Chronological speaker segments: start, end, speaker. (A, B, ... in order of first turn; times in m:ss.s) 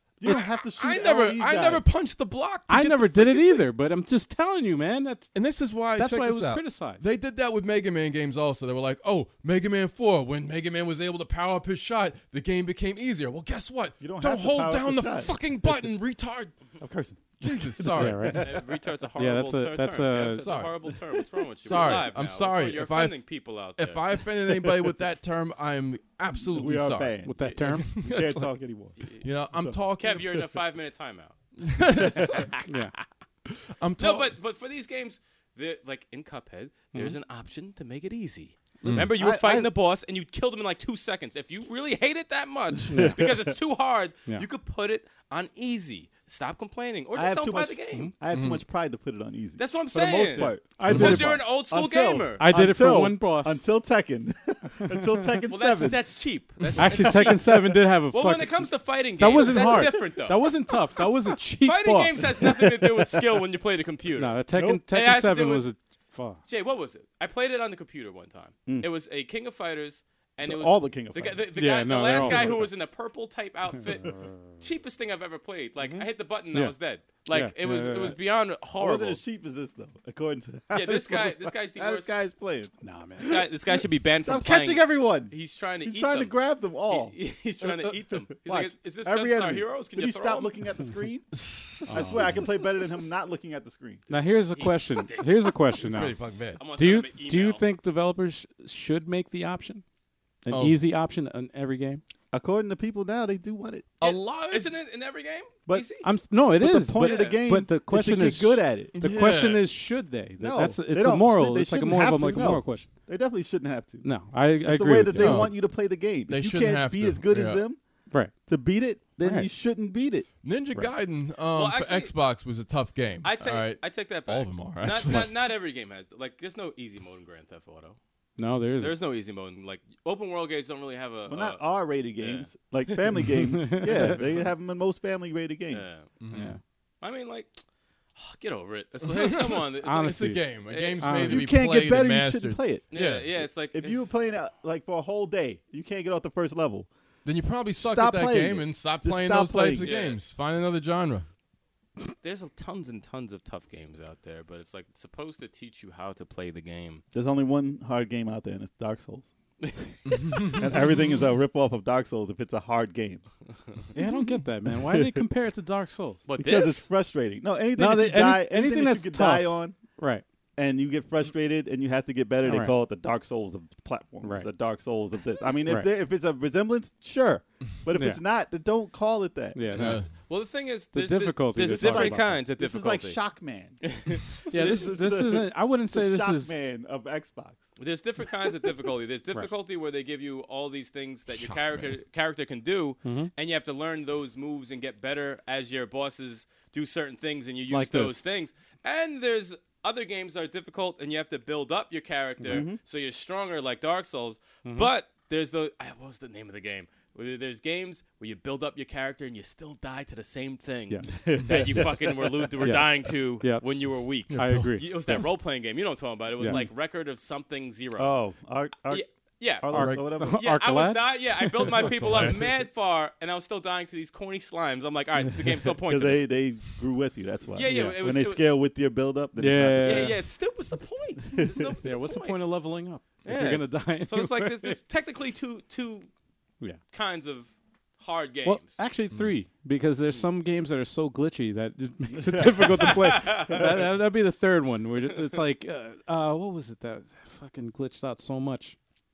0:00.2-0:01.9 A
0:00.2-0:03.7 B
0:02.7-0:05.3 C
0:05.3-0:16.5 B
0:05.9-0:07.0 C
0:14.0-0:15.3 A
0:16.8-0:18.7 A
0:17.4-0:18.6 B
0:18.0-0:18.5 C
0:18.4-0:24.0 D
0:19.2-0:20.5 C
0:20.4-0:20.7 B
0:21.7-0:23.2 B
0:23.8-0:27.2 B
0:24.4-0:24.9 A
0:26.3-0:29.8 A
0:27.2-0:28.1 C
0:27.8-0:28.4 B
0:29.2-0:30.4 B
0:30.0-0:32.6 D
0:31.6-0:32.5 B
0:32.7-0:32.9 C
0:33.7-0:34.3 B
0:34.0-0:48.1 D
0:38.8-0:39.7 A
0:38.8-0:39.1 B
0:42.8-0:43.5 A
0:42.9-0:43.2 C
0:47.1-0:56.1 A
0:48.3-0:48.6 B
0:49.6-0:52.4 D
0:50.4-0:51.4 C
0:50.9-0:51.2 B
0:52.4-0:53.6 C
0:54.8-0:55.4 C
0:55.5-1:00.7 D
0:56.8-0:57.6 A
0:56.8-1:02.3 C
0:59.5-0:59.8 A
1:01.6-1:04.4 D
1:02.3-1:03.4 A
1:04.2-1:06.4 C
1:04.5-1:04.8 A
1:04.9-1:05.7 D
1:06.5-1:19.2 D
1:10.4-1:11.6 A
1:11.6-1:12.6 C
1:12.1-1:12.7 A
1:14.0-1:14.3 C
1:15.8-1:16.8 C
1:17.3-1:18.2 C
1:18.8-1:27.1 A
1:20.7-1:22.1 D
1:22.8-1:23.4 C
1:23.2-1:26.4 D
1:26.9-1:30.6 D
1:27.6-1:27.9 B
1:28.4-1:31.3 A
1:31.3-1:32.5 B
1:31.9-1:34.1 A
1:31.9-1:32.4 C
1:34.1-1:39.8 C
1:34.6-1:37.6 D
1:35.8-1:36.6 B
1:40.4-1:42.0 C
1:40.5-1:40.8 B
1:42.3-1:43.9 A
1:44.0-1:44.7 B
1:44.0-1:46.1 D
1:46.0-1:52.9 C
1:46.6-1:48.9 A
1:47.0-1:47.4 D
1:48.9-1:49.7 B
1:50.4-1:54.0 A
1:54.0-1:55.5 C
1:54.6-1:57.8 A
1:55.2-1:55.6 B
1:56.3-1:57.6 B
1:58.5-2:00.3 A
1:59.2-1:59.5 C
2:00.4-2:05.3 B
2:01.5-2:02.1 D
2:03.2-2:08.0 D
2:08.4-2:08.9 C
2:08.8-2:11.7 D
2:11.3-2:15.9 A
2:12.2-2:13.0 D
2:13.4-2:14.2 C
2:13.9-2:14.4 D
2:15.7-2:16.1 D
2:16.2-2:16.5 B
2:16.3-2:16.6 C
2:17.0-2:17.6 D
2:18.2-2:21.1 D
2:19.0-2:23.3 B
2:19.8-2:20.4 C
2:21.0-2:21.5 C
2:21.2-2:22.8 A
2:22.9-2:24.1 D
2:23.4-2:26.9 A
2:27.2-2:31.3 B
2:27.8-2:29.9 A
2:29.8-2:30.2 D
2:32.2-2:37.0 D
2:37.1-2:39.3 A
2:39.6-2:40.6 D
2:40.1-2:40.9 B
2:40.3-2:43.2 A
2:43.9-2:46.2 C
2:44.7-2:45.2 A
2:46.3-2:46.9 D
2:46.4-2:49.8 A
2:47.8-2:50.2 C
2:50.6-2:59.9 A
2:52.4-2:52.7 C
2:54.2-2:54.5 C
2:58.0-2:58.2 C
2:59.5-3:00.0 C
2:59.7-3:00.1 B
3:00.2-3:03.2 D
3:00.9-3:02.3 C
3:01.6-3:07.7 A
3:03.8-3:04.9 D
3:04.5-3:06.5 C
3:07.8-3:38.2 D
3:11.3-3:12.0 B
3:13.0-3:13.3 C
3:17.7-3:18.2 C
3:22.5-3:22.8 A
3:24.6-3:24.9 C
3:31.1-3:32.9 A
3:32.6-3:33.6 C
3:34.3-3:34.7 B
3:34.3-3:35.2 C
3:36.4-3:36.6 C
3:38.0-3:39.0 A
3:38.9-3:46.3 D
3:39.6-3:40.4 A
3:39.7-3:41.9 C
3:39.8-3:40.0 B
3:41.8-3:42.4 B
3:45.3-3:50.2 A
3:47.5-3:48.5 D
3:47.7-3:48.0 C
3:49.4-3:50.2 C
3:49.8-3:52.5 D
3:51.3-3:51.7 A
3:51.8-3:54.8 C
3:53.2-3:56.1 D
3:56.9-3:58.8 D
3:58.4-4:08.8 C
4:02.1-4:03.8 A
4:02.6-4:03.7 D